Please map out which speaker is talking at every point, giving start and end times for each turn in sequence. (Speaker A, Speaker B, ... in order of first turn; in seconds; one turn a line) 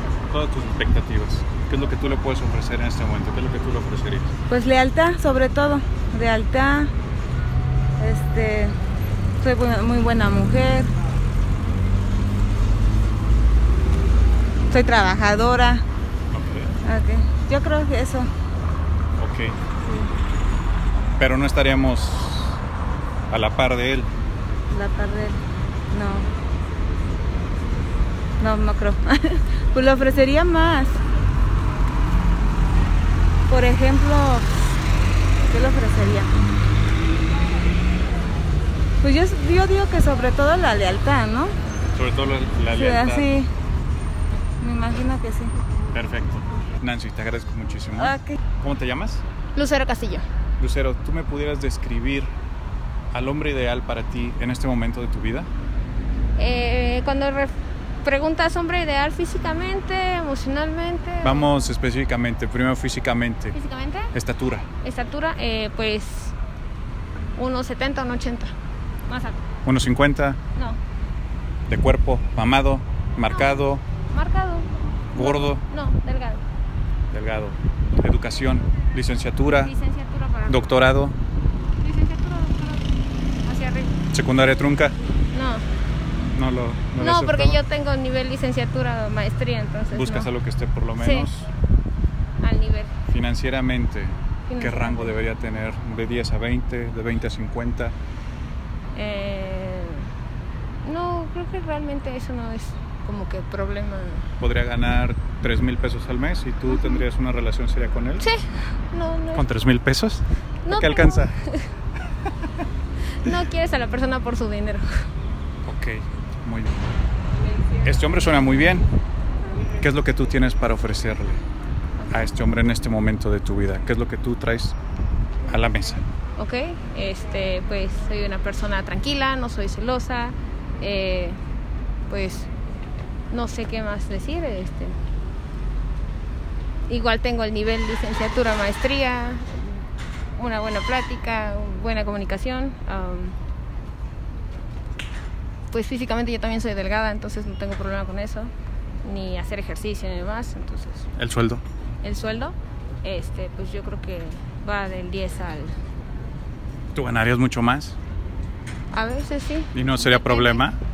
Speaker A: 0.3-4.3
Speaker B: 4.5-6.9
Speaker B: 8.0-8.7
Speaker B: 9.4-10.9
Speaker B: 14.7-15.8
Speaker A: 16.3-16.7
Speaker B: 16.8-18.3
Speaker A: 19.2-19.5
Speaker A: 21.2-22.6
Speaker A: 23.3-24.1
Speaker B: 24.7-26.3
Speaker B: 28.4-31.0
Speaker B: 33.5-34.5
Speaker B: 35.4-36.3
Speaker B: 39.0-41.5
Speaker A: 41.9-43.3
Speaker B: 42.7-43.5
Speaker B: 44.6-45.5
Speaker A: 45.9-49.2
Speaker B: 48.0-48.3
Speaker C: 49.5-50.2
Speaker A: 50.6-52.3
Speaker A: 53.1-55.5
Speaker C: 56.4-61.4
Speaker A: 61.2-63.5
Speaker C: 63.5-64.1
Speaker A: 64.1-64.7
Speaker C: 64.8-66.3
Speaker C: 67.3-68.5
Speaker C: 69.1-69.4
Speaker A: 69.6-70.4
Speaker A: 71.7-73.8
Speaker C: 74.1-76.4
Speaker A: 75.1-75.6
Speaker A: 77.1-79.7
Speaker C: 79.6-80.6
Speaker A: 80.5-81.2
Speaker C: 81.8-82.8
Speaker C: 83.4-83.9
Speaker A: 84.1-85.0
Speaker C: 85.3-85.6
Speaker A: 86.3-87.6
Speaker C: 87.0-90.3
Speaker A: 89.9-91.5
Speaker C: 91.0-91.3
Speaker C: 92.4-92.9
Speaker A: 93.1-97.9
Speaker C: 94.5-95.1
Speaker C: 98.9-100.0
Speaker C: 100.8-104.2
Speaker A: 104.4-108.3
Speaker C: 106.7-107.0
Speaker C: 108.9-109.4
Speaker A: 109.3-111.3
Speaker C: 110.7-111.5
Speaker C: 113.3-114.9
Speaker A: 115.6-116.8
Speaker A: 117.8-118.9
Speaker A: 119.8-121.4
Speaker A: 122.1-124.7
Speaker A: 125.5-126.1
Speaker C: 126.4-131.4
Speaker C: 132.1-132.5
Speaker C: 133.3-134.9
Speaker C: 136.9-139.6
Speaker C: 140.4-143.3
Speaker C: 145.7-148.5
Speaker C: 149.0-151.1
Speaker A: 151.2-151.6
Speaker C: 152.0-155.7
Speaker A: 156.9-158.0
Speaker C: 158.9-160.6
Speaker A: 159.7-160.8